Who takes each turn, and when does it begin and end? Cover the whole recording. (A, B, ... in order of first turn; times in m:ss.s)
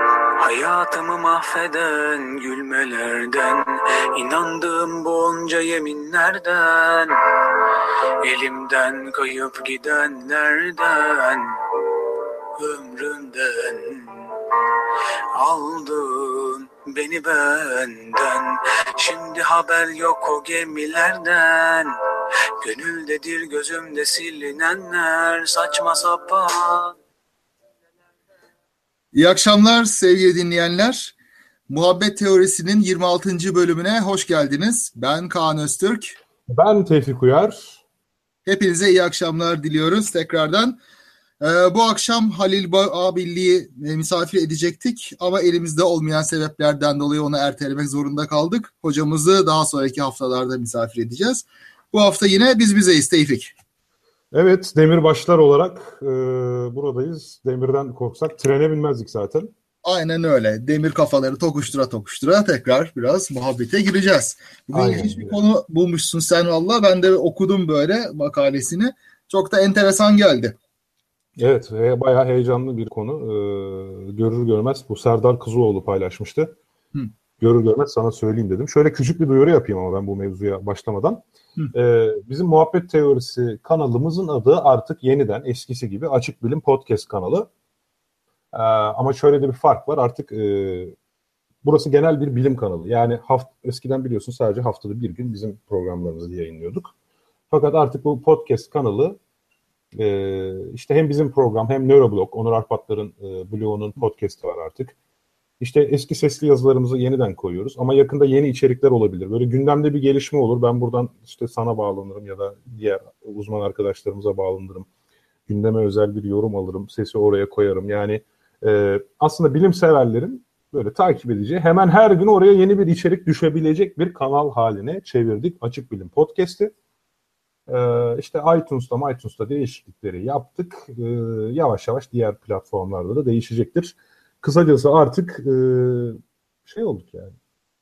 0:00.4-0:07.6 A
0:08.2-0:11.8 A
0:12.6-0:14.3 A
0:15.3-0:21.9 A
0:22.6-0:26.9 A
0:29.1-0:31.1 B
0:31.7-0:36.2 B
0:36.5-0:37.8 C
0:38.4-0:40.8 B
0:41.4-0:53.5 B
0:54.3-0:59.5 C
0:59.8-1:10.6 B
1:04.7-1:05.4 C
1:11.4-1:16.5 C
1:17.4-1:21.2 C
1:21.7-1:27.5 C
1:28.5-1:30.9 C
1:31.6-1:36.9 C
1:37.5-1:39.2 C
1:39.9-1:44.9 C
1:45.6-1:54.9 C
1:55.5-2:06.7 C
2:07.7-2:17.3 C